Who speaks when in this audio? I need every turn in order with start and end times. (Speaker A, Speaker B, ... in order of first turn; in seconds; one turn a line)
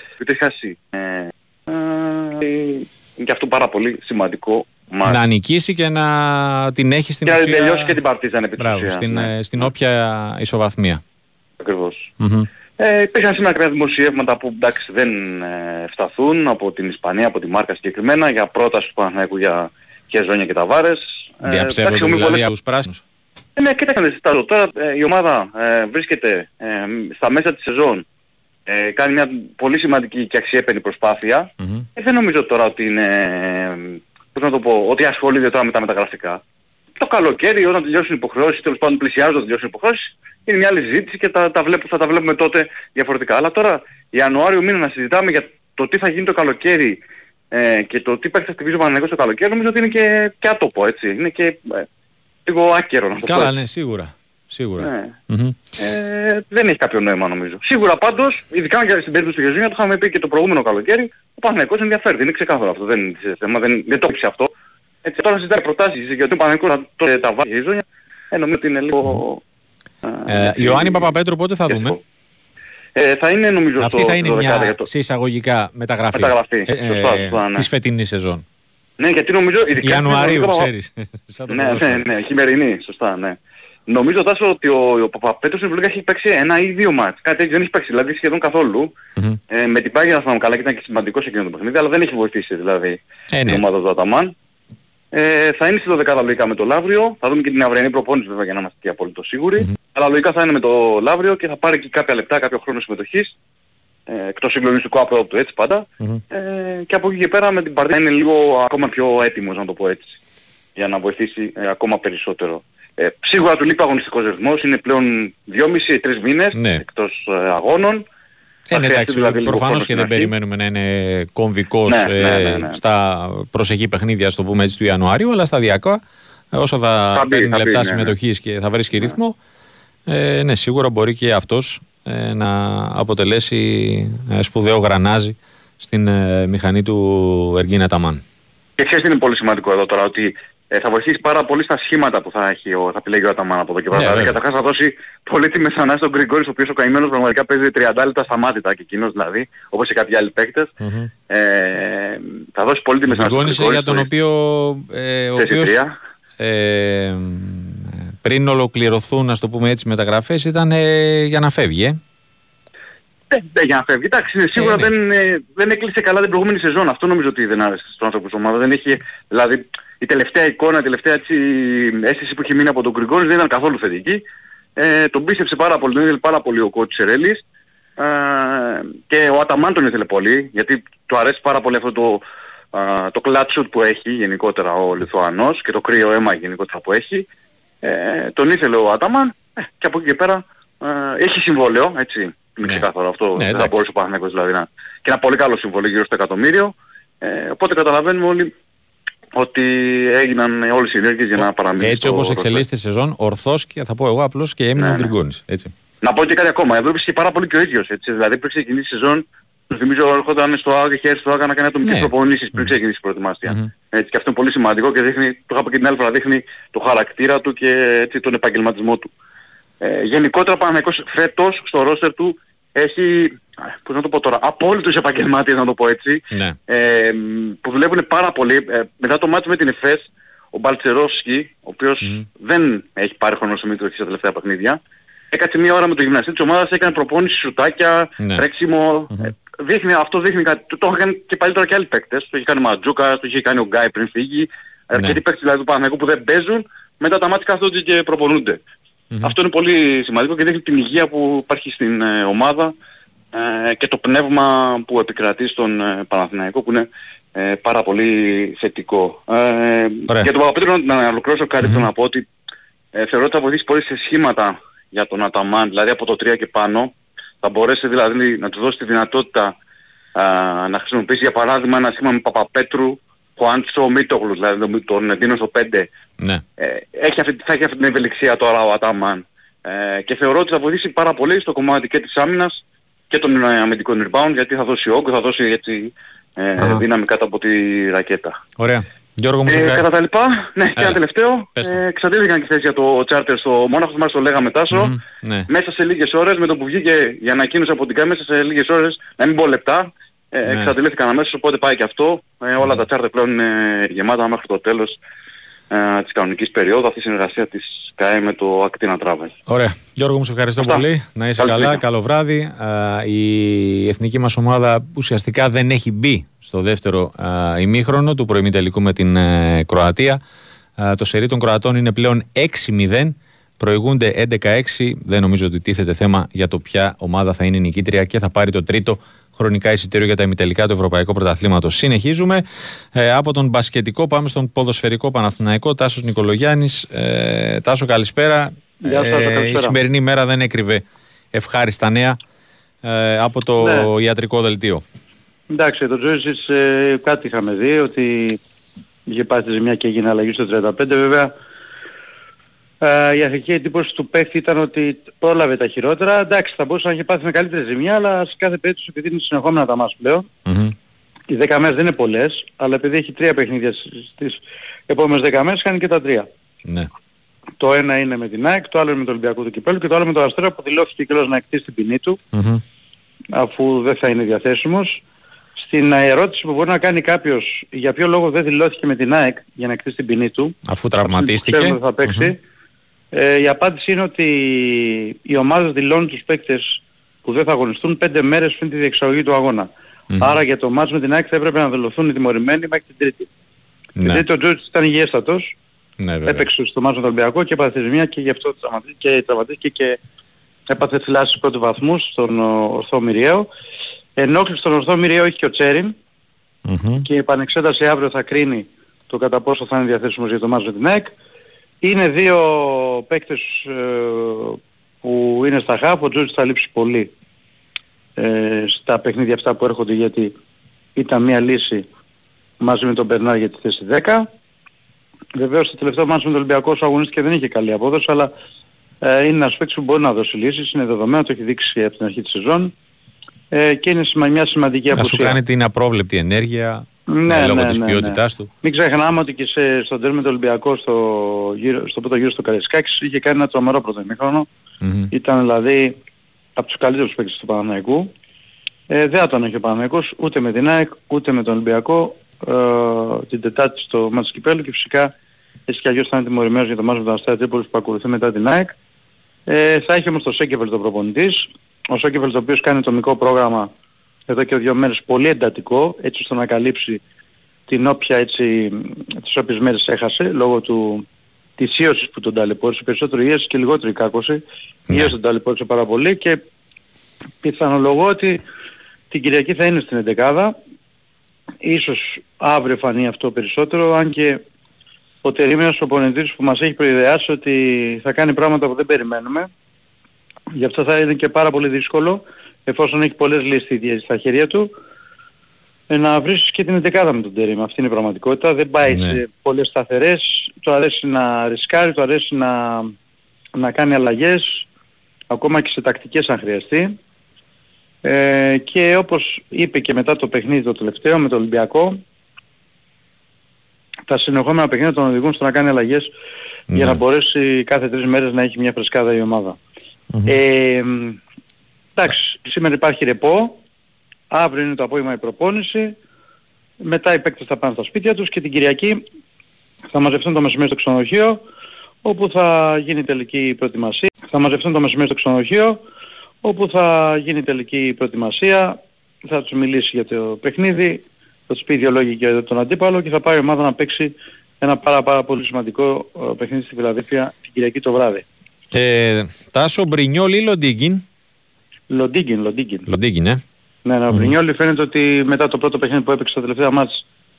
Speaker A: 0.2-5.2
Speaker B: 5.0-7.9
Speaker A: 7.2-9.3
Speaker B: 8.6-11.0
Speaker A: 11.6-12.1
Speaker B: 12.2-12.5
Speaker A: 12.8-22.5
Speaker B: 21.4-23.0
Speaker A: 23.6-28.0
Speaker A: 28.7-36.4
Speaker B: 31.6-31.9
Speaker A: 37.0-47.0
Speaker A: 47.5-51.9
Speaker A: 52.5-53.5
Speaker B: 53.2-55.6
Speaker A: 54.8-55.1
Speaker A: 55.8-64.5
Speaker A: 65.0-69.4
Speaker A: 70.0-71.1
Speaker B: 70.3-72.0
Speaker A: 71.7-72.0
Speaker A: 72.9-74.9
Speaker B: 73.8-78.4
Speaker A: 76.1-77.7
Speaker A: 79.0-80.7
Speaker B: 79.8-82.0
Speaker A: 81.5-88.9
Speaker A: 89.5-94.3
Speaker B: 93.3-93.6
Speaker A: 95.1-103.3
Speaker A: 104.1-110.1
Speaker A: 110.8-118.0
Speaker B: 116.5-116.8
Speaker A: 118.7-120.3
Speaker B: 118.7-126.0
Speaker A: 121.9-122.8
Speaker B: 126.5-129.3
Speaker A: 127.1-128.1
Speaker B: 130.1-138.2
Speaker A: 138.8-150.7
Speaker B: 143.9-144.4
Speaker B: 150.8-151.1
Speaker A: 151.3-154.1
Speaker B: 153.1-155.8
Speaker A: 155.4-155.9
Speaker B: 156.4-162.0
Speaker A: 163.3-174.2
Speaker B: 164.6-164.9
Speaker A: 174.8-177.4
Speaker A: 178.0-187.2
Speaker A: 187.8-198.5
Speaker B: 193.4-193.8
Speaker A: 199.3-202.6
Speaker B: 201.4-205.7
Speaker A: 204.8-205.1
Speaker A: 206.0-219.1
Speaker B: 211.8-212.7
Speaker A: 219.8-234.8
Speaker B: 226.3-226.6
Speaker A: 235.3-248.6
Speaker A: 249.2-252.7
Speaker A: 253.3-262.2
Speaker A: 262.9-269.5
Speaker A: 270.1-275.9
Speaker A: 276.6-288.4
Speaker B: 288.6-289.8
Speaker A: 289.5-294.9
Speaker B: 294.7-295.5
Speaker A: 295.5-305.0
Speaker B: 300.5-300.7
Speaker A: 305.7-309.3
Speaker B: 309.5-320.2
Speaker A: 311.4-311.8
Speaker B: 320.8-332.4
Speaker B: 332.9-342.2
Speaker C: 338.8-339.8
Speaker B: 342.8-344.8
Speaker C: 343.6-343.9
Speaker C: 345.5-348.4
Speaker C: 349.1-351.3
Speaker C: 352.8-360.3
Speaker B: 360.4-360.7
Speaker C: 361.3-366.3
Speaker C: 367.6-372.2
Speaker B: 372.3-372.6
Speaker C: 373.3-375.0
Speaker C: 375.6-382.4
Speaker B: 380.7-382.3
Speaker C: 383.1-389.7
Speaker B: 390.1-390.4
Speaker C: 390.2-393.3
Speaker B: 394.0-394.2
Speaker C: 394.0-395.5
Speaker B: 396.0-396.5
Speaker C: 396.2-400.0
Speaker C: 400.7-403.5
Speaker C: 404.2-405.9
Speaker B: 406.7-407.0
Speaker C: 407.0-411.1
Speaker C: 411.8-417.1
Speaker C: 418.2-420.3
Speaker C: 420.9-421.8
Speaker C: 422.6-424.3
Speaker C: 425.4-428.3
Speaker C: 429.0-432.7
Speaker C: 433.5-435.4
Speaker B: 434.9-438.5
Speaker C: 437.1-444.5
Speaker B: 444.8-445.1
Speaker C: 445.1-446.0
Speaker C: 446.6-448.1
Speaker C: 448.9-455.1
Speaker C: 455.7-458.7
Speaker C: 459.5-463.7
Speaker C: 464.3-467.0
Speaker C: 467.7-471.0
Speaker C: 471.6-476.4
Speaker C: 477.4-478.4
Speaker C: 479.1-480.5
Speaker C: 481.6-484.4
Speaker C: 485.2-489.5
Speaker C: 490.5-494.7
Speaker C: 495.9-502.9
Speaker B: 498.9-499.2
Speaker C: 503.6-504.6
Speaker C: 505.3-506.9
Speaker C: 508.0-512.0
Speaker C: 514.1-516.1
Speaker B: 516.7-517.0
Speaker C: 516.7-519.6
Speaker C: 520.3-521.2
Speaker C: 522.0-523.6
Speaker C: 524.3-526.0
Speaker C: 526.8-529.0
Speaker C: 529.9-531.4
Speaker C: 532.0-535.8
Speaker C: 536.4-548.2
Speaker B: 548.7-551.0
Speaker C: 551.9-552.9
Speaker B: 552.9-553.4
Speaker C: 553.8-557.0